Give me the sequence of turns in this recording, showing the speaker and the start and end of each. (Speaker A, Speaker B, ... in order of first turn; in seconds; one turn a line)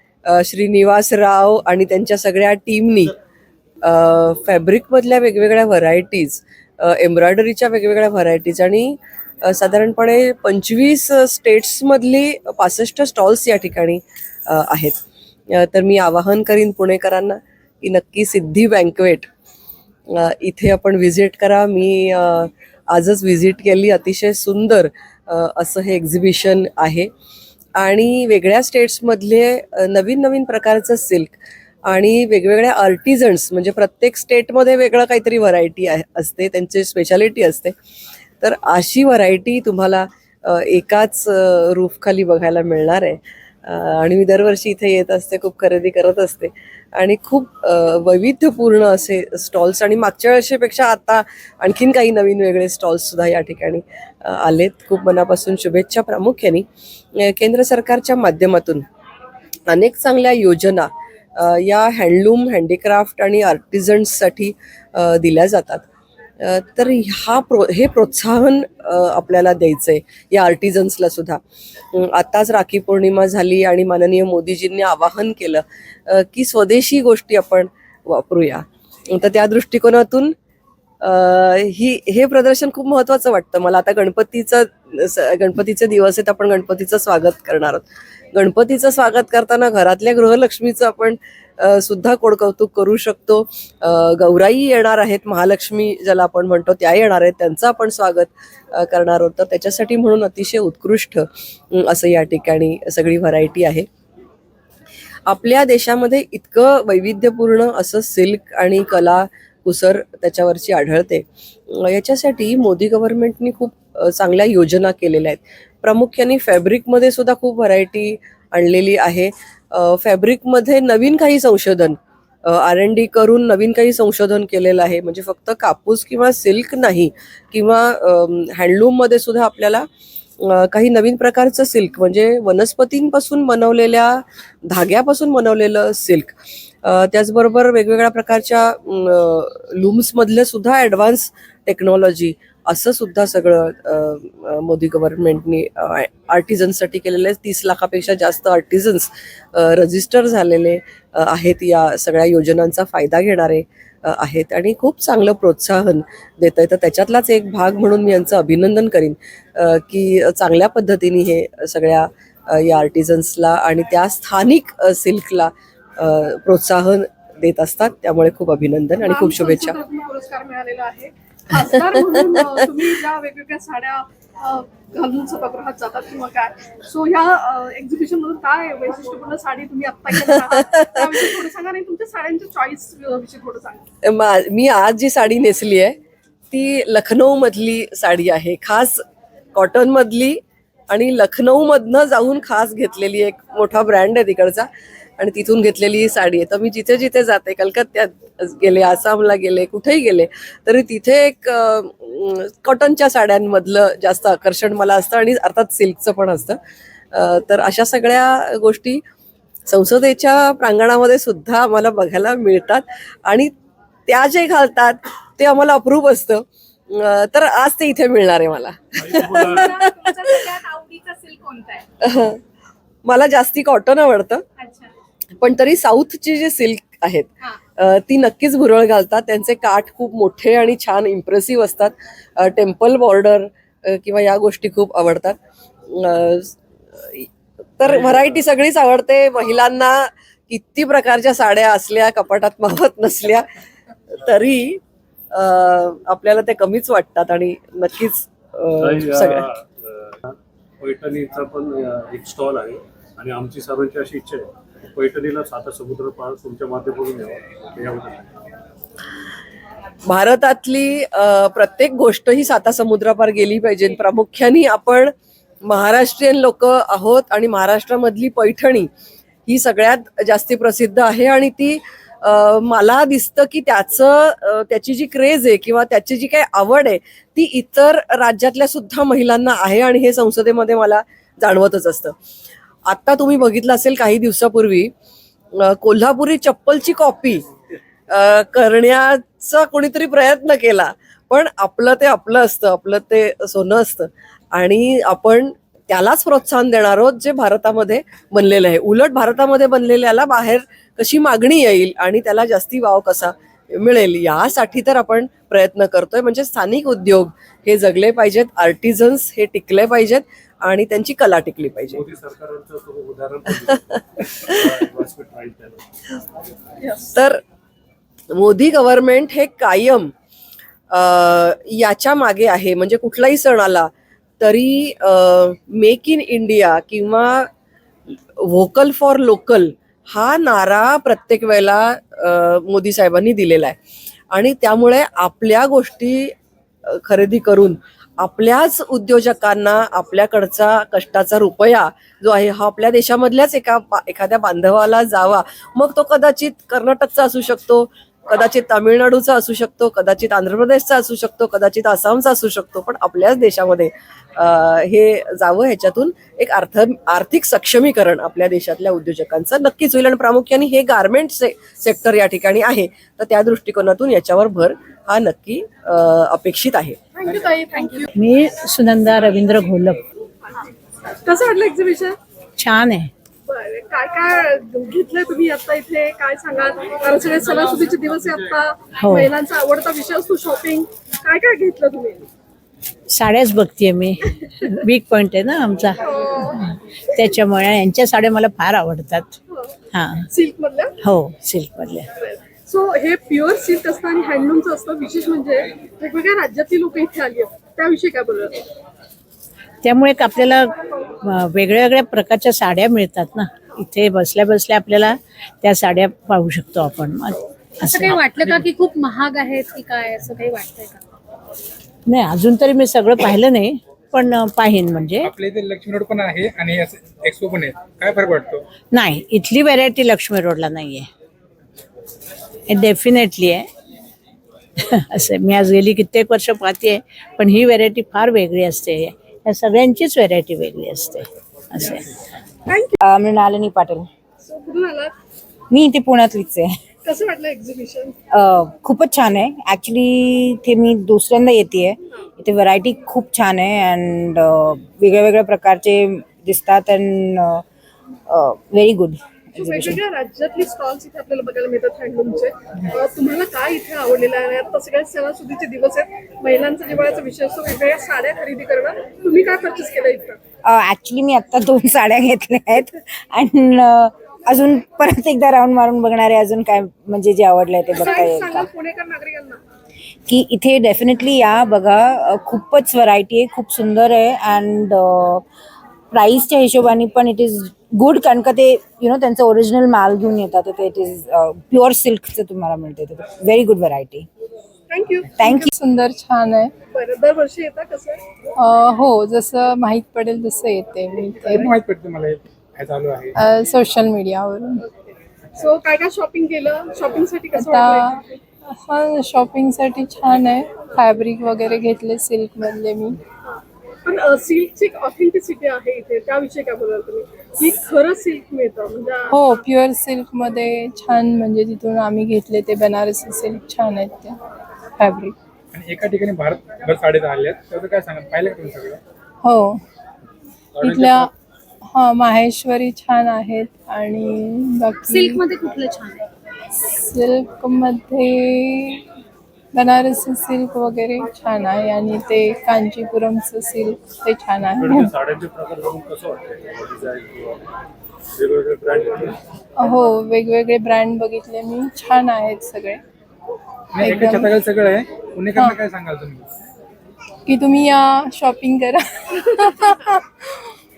Speaker A: 0.3-3.1
Speaker A: 3.8-15.0
Speaker A: 15.5-19.2
Speaker A: 20.1-27.1
Speaker A: 27.8-31.3
Speaker A: 31.9-37.7
Speaker A: 38.4-56.6
Speaker A: 57.2-58.8
Speaker A: 59.7-65.8
Speaker A: 66.4-71.4
Speaker A: 71.9-80.3
Speaker A: 81.0-103.8
Speaker A: 105.3-129.8
Speaker A: 130.4-169.8
Speaker B: 169.0-183.8
Speaker A: 180.3-181.1
Speaker A: 184.0-185.9
Speaker A: 186.5-189.0
Speaker A: 189.5-190.4
Speaker A: 190.9-194.7
Speaker A: 195.2-206.6
Speaker A: 207.1-209.0
Speaker A: 209.7-213.5
Speaker A: 214.1-220.3
Speaker C: 219.0-219.7
Speaker B: 219.4-221.8
Speaker A: 222.0-222.4
Speaker A: 223.0-224.4
Speaker B: 224.6-224.9
Speaker A: 225.4-235.4
Speaker A: 235.9-243.4
Speaker A: 244.1-244.8
Speaker A: 245.3-249.5
Speaker C: 248.8-258.3
Speaker A: 260.1-265.1
Speaker A: 265.6-268.9
Speaker A: 269.5-282.1
Speaker A: 282.9-284.9
Speaker A: 285.6-287.4
Speaker A: 288.1-312.0
Speaker C: 311.9-315.8
Speaker B: 316.8-317.1
Speaker A: 317.1-317.4
Speaker A: 318.3-320.1
Speaker A: 320.9-327.5
Speaker A: 328.4-333.8
Speaker A: 334.3-336.3
Speaker A: 336.9-367.0
Speaker B: 367.1-368.1
Speaker D: 368.1-370.0
Speaker B: 370.4-372.2
Speaker D: 372.6-373.1
Speaker B: 373.4-382.2
Speaker D: 383.1-386.0
Speaker B: 384.3-384.7
Speaker B: 386.0-386.6
Speaker D: 387.1-389.3
Speaker B: 389.5-389.8
Speaker D: 389.9-390.2
Speaker B: 390.3-390.9
Speaker D: 391.0-392.0
Speaker B: 392.1-398.6
Speaker D: 399.8-400.6
Speaker D: 401.2-408.1
Speaker E: 407.8-411.0
Speaker F: 407.8-408.6
Speaker D: 412.1-415.3
Speaker F: 415.2-418.6
Speaker D: 418.9-421.1
Speaker D: 422.7-423.6
Speaker D: 424.8-432.1
Speaker B: 432.7-432.9
Speaker G: 433.0-434.1
Speaker B: 434.4-435.1
Speaker G: 435.7-436.7
Speaker B: 437.0-438.1
Speaker G: 438.3-447.6
Speaker G: 448.3-450.0
Speaker B: 449.6-460.4
Speaker G: 460.6-468.7
Speaker B: 467.9-469.6
Speaker G: 470.3-475.4
Speaker G: 476.1-484.3
Speaker B: 484.9-485.6
Speaker G: 485.4-485.7
Speaker H: 485.6-486.7
Speaker B: 486.9-488.2
Speaker H: 488.6-491.7
Speaker F: 491.4-493.3
Speaker H: 493.3-494.8
Speaker B: 494.8-498.4
Speaker H: 497.5-498.1
Speaker H: 498.7-503.2
Speaker B: 503.4-509.4
Speaker H: 509.3-514.4
Speaker H: 515.0-515.3
Speaker F: 515.7-519.0
Speaker H: 519.4-519.8
Speaker F: 520.8-521.3
Speaker H: 520.8-521.3
Speaker H: 521.9-525.5
Speaker E: 525.1-526.3
Speaker H: 526.8-529.0
Speaker H: 529.7-535.1
Speaker C: 534.8-537.7
Speaker C: 538.4-539.4
Speaker H: 539.8-543.0
Speaker F: 543.9-546.5
Speaker H: 544.0-544.6
Speaker H: 545.5-545.8
Speaker H: 547.5-550.7
Speaker B: 549.3-550.1